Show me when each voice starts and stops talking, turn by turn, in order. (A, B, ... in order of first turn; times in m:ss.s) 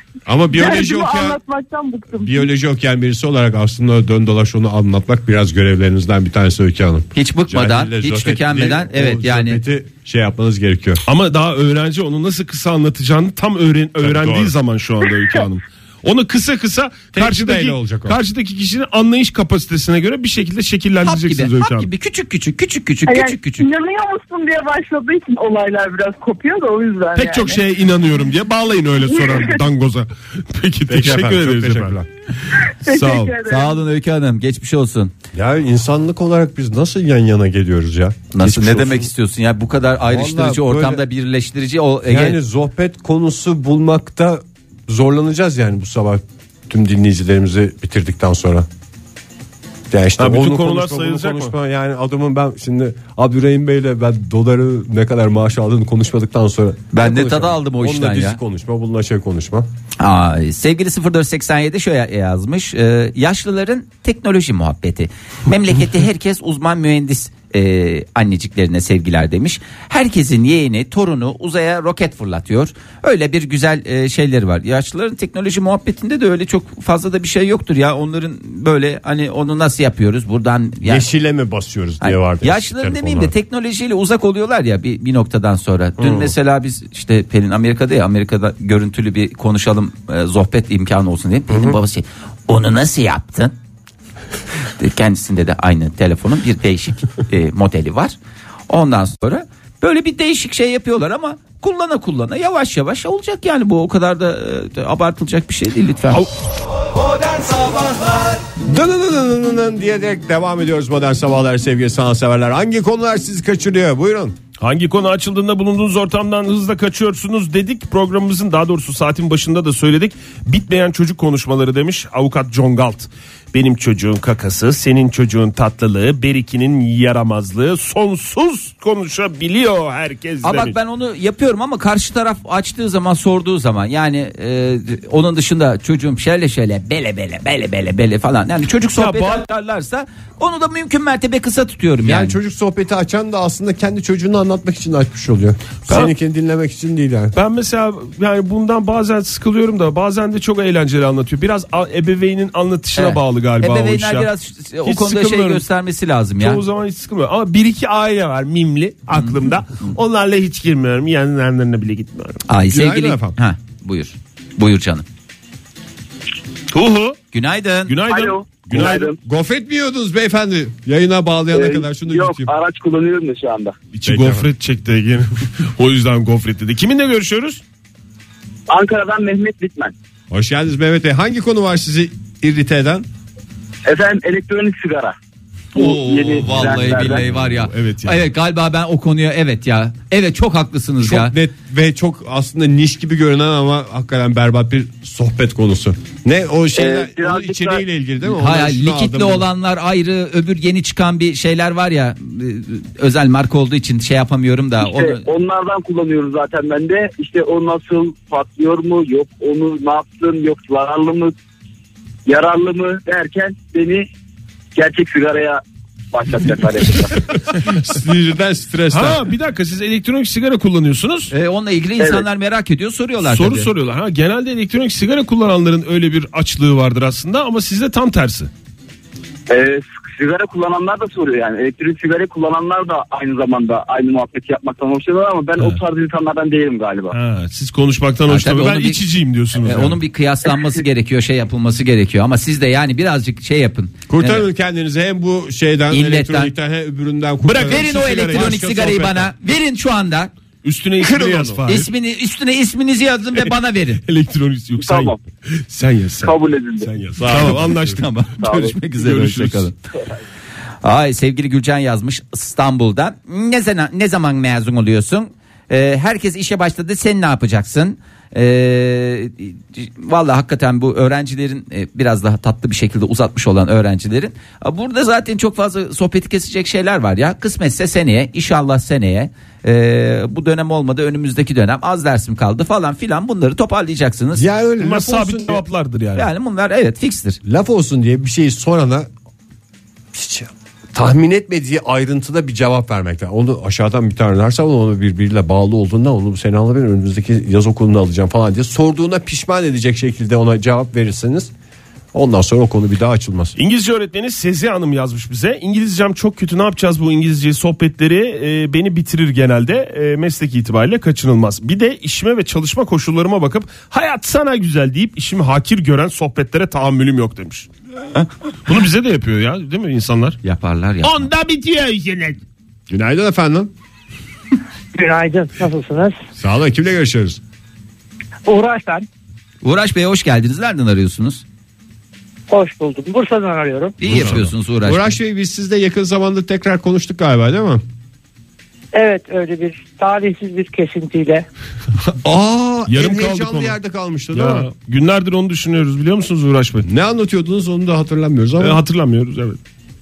0:00.3-0:01.4 A
0:00.5-0:02.4 B
0:02.1-0:11.0 A
0:07.2-0:09.6 C
0:11.1-0:21.9 D
0:14.0-0:14.6 A
0:17.1-0:18.2 A
0:21.0-0:23.6 C
0:23.1-0:27.6 B
0:27.2-0:32.0 D
0:29.0-0:29.6 B
0:30.9-0:32.1 A
0:32.5-0:33.3 D
0:32.7-0:33.8 B
0:33.4-0:35.1 C
0:35.3-0:39.0 A
0:38.3-0:42.4 C
0:40.0-0:41.0 A
0:42.0-0:48.7 A
0:49.9-0:59.7 A
0:50.2-0:51.5 D
0:56.9-0:58.4 C
1:00.0-1:21.1 C
1:20.8-1:23.3 A
1:22.0-1:33.6 C
1:31.5-1:31.8 A
1:34.8-1:38.2 C
1:38.7-1:46.3 C
1:48.6-1:54.4 A
1:54.6-2:10.8 D
2:10.4-2:22.4 C
2:19.0-2:19.5 D
2:22.0-2:27.4 A
2:27.4-2:34.3 D
2:33.0-2:36.6 C
2:34.8-2:35.7 D
2:36.4-2:42.4 D
2:42.5-2:45.0 C
2:42.7-2:43.4 A
2:46.7-2:47.2 D
2:47.3-2:47.9 C
2:47.9-2:49.1 D
2:48.1-2:49.2 E
2:48.7-2:52.5 A
2:51.5-2:53.8 E
2:53.9-2:57.6 D
2:54.0-2:54.5 A
2:58.7-2:59.9 E
3:00.3-3:03.1 A
3:03.9-3:05.2 E
3:05.7-3:11.4 C
3:05.8-3:07.2 E
3:06.7-3:08.2 D
3:11.0-3:19.5 A
3:16.7-3:17.8 E
3:18.2-3:25.2 C
3:24.8-3:31.3 E
3:32.3-3:34.1 E
3:34.8-3:35.6 E
3:36.1-3:37.1 E
3:37.6-3:39.2 A
3:38.9-3:41.3 D
3:41.3-3:43.7 C
3:42.0-3:42.2 E
3:43.2-3:48.5 D
3:49.5-3:57.2 E
3:57.1-4:00.0 D
3:58.3-3:59.0 C
3:59.6-4:04.4 C
4:04.1-4:09.3 A
4:05.9-4:06.5 C
4:07.4-4:08.6 D
4:07.6-4:10.3 C
4:10.6-4:11.9 D
4:11.0-4:14.0 C
4:14.0-4:18.1 D
4:14.8-4:15.2 E
4:16.2-4:16.9 E
4:17.2-4:17.9 A
4:17.9-4:19.8 C
4:18.4-4:18.7 E
4:19.0-4:19.7 D
4:20.8-4:44.4 C
4:44.4-4:45.6 A
4:44.8-4:46.3 D
4:46.2-4:47.4 C
4:47.4-4:49.1 A
4:50.1-5:01.5 A
5:02.1-5:03.6 A
5:03.6-5:17.7 D
5:18.7-5:20.4 D
5:20.4-5:21.3 C
5:21.0-5:22.4 D
5:22.9-5:23.7 A
5:24.9-5:26.2 F
5:26.4-5:27.4 A
5:28.4-5:29.1 F
5:29.6-5:31.4 C
5:32.5-5:34.0 F
5:34.0-5:35.1 C
5:34.0-5:37.8 A
5:38.9-5:41.5 F
5:42.2-5:44.7 A
5:42.9-5:43.8 D
5:44.3-5:46.9 D
5:46.9-5:48.8 A
5:48.6-5:49.6 D